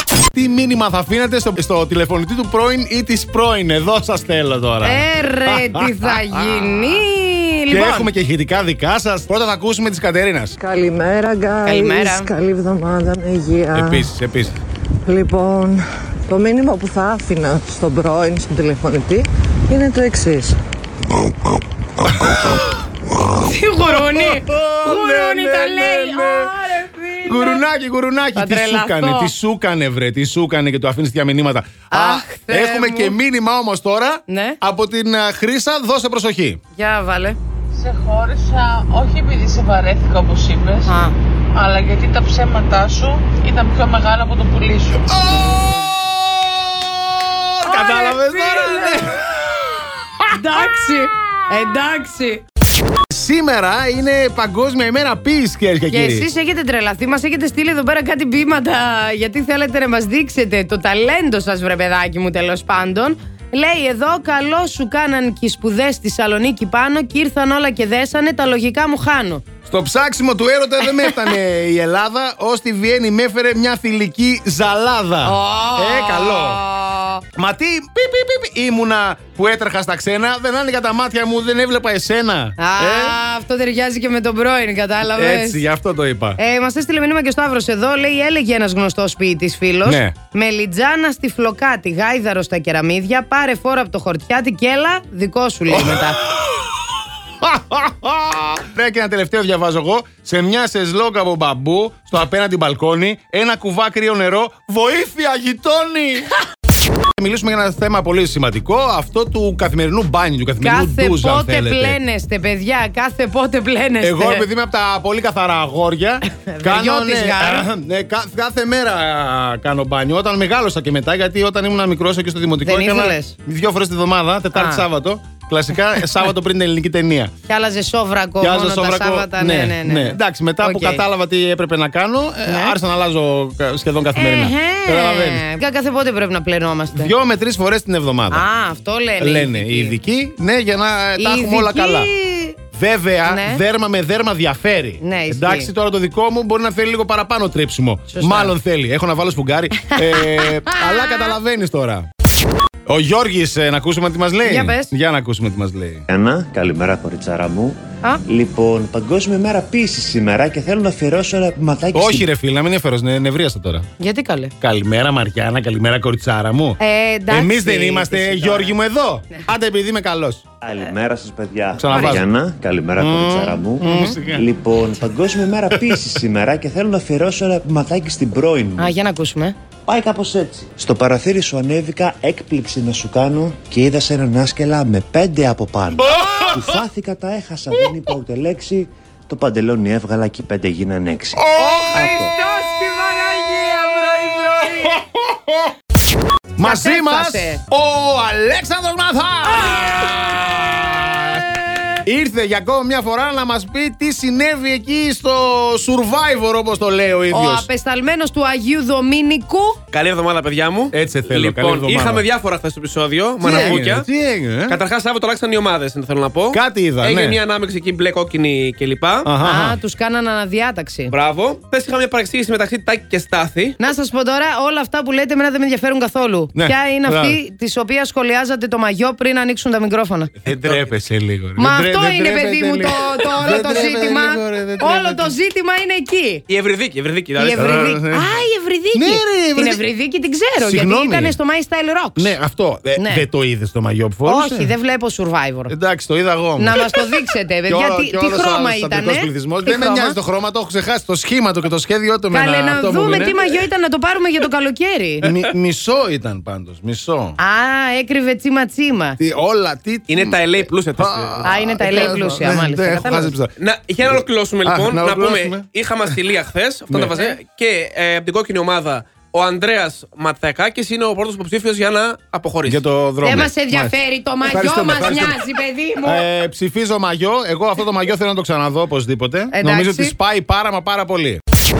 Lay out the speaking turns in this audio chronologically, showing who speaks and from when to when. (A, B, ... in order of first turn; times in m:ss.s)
0:00.3-0:07.0 A
0:04.8-0:08.1 B
0:07.7-0:10.5 A
0:10.6-0:14.1 C
0:11.6-0:12.3 B
0:13.7-0:14.5 A
0:15.0-0:20.6 C
0:22.1-0:22.6 A
0:23.4-0:27.6 B
0:23.9-0:26.5 A
0:27.2-0:36.6 A
0:28.3-0:29.3 B
0:31.9-0:33.2 B
0:34.3-0:34.6 B
0:36.8-0:37.4 B
0:37.7-0:40.9 D
0:40.8-0:41.2 B
0:41.5-0:45.0 D
0:45.1-0:50.4 A
0:47.6-0:49.1 B
0:50.3-0:52.4 B
0:52.9-0:56.2 A
0:55.9-1:09.4 B
1:09.6-1:16.6 A
1:15.2-1:17.2 B
1:17.4-1:23.1 A
1:22.6-1:25.6 B
1:25.1-1:26.4 A
1:26.4-1:36.2 B
1:29.8-1:30.2 A
1:35.7-1:36.8 A
1:37.4-1:46.3 A
1:47.1-1:52.0 A
1:50.6-1:54.5 B
1:54.0-2:07.3 A
1:56.2-1:57.7 B
2:02.6-2:03.4 B
2:04.5-2:04.8 B
2:07.5-2:11.0 B
2:08.4-2:15.4 A
2:12.4-2:12.8 B
2:14.1-2:17.1 B
2:16.9-2:18.4 A
2:18.3-2:20.0 B
2:19.2-2:22.1 A
2:21.2-2:22.6 B
2:22.7-2:32.1 A
2:23.2-2:23.6 B
2:25.0-2:25.7 B
2:28.1-2:28.5 B
2:29.8-2:31.4 B
2:32.9-2:36.0 A
2:34.4-2:34.9 B
2:36.1-2:42.3 E
2:41.9-2:43.8 A
2:44.0-2:44.5 B
2:44.6-2:46.8 A
2:46.8-2:48.8 B
2:47.3-2:50.4 A
2:50.6-2:58.9 E
2:51.8-2:52.2 A
2:51.9-2:52.2 B
2:53.0-2:54.5 A
2:53.8-2:54.2 B
2:55.7-2:56.2 A
2:58.8-2:59.6 B
2:59.8-3:12.3 E
3:06.0-3:06.8 A
3:11.4-3:12.2 A
3:11.6-3:15.0 B
3:13.4-3:15.7 A
3:16.6-3:21.4 A
3:16.6-3:17.6 B
3:19.5-3:20.2 B
3:22.0-3:27.7 A
3:27.3-3:29.8 B
3:29.9-3:34.0 F
3:30.9-3:32.2 A
3:33.4-3:34.8 A
3:33.4-3:33.8 B
3:34.7-3:39.3 F
3:36.5-3:37.4 A
3:39.2-3:39.8 A
3:39.4-3:41.1 B
3:41.1-3:43.8 F
3:43.8-3:50.3 B
3:46.5-3:47.4 A
3:50.4-3:55.3 A
3:50.5-3:50.8 F
3:51.6-3:56.4 B
3:56.5-3:57.9 F
3:57.4-4:02.4 B
3:57.6-3:58.3 A
3:58.9-3:59.8 A
4:00.6-4:01.4 A
4:02.2-4:04.7 A
4:02.9-4:03.2 B
4:04.2-4:05.7 B
4:05.7-4:07.1 A
4:06.6-4:10.2 B
4:07.7-4:13.4 A
4:12.3-4:15.3 B
4:15.2-4:17.4 A
4:17.4-4:19.2 B
4:19.2-4:23.5 A
4:20.1-4:22.1 F
4:21.4-4:23.3 B
4:23.6-4:32.8 F
4:24.0-4:26.2 A
4:26.9-4:27.2 A
4:32.6-4:35.4 A
4:33.2-4:36.2 B
4:36.0-4:41.4 A
4:39.5-4:40.2 B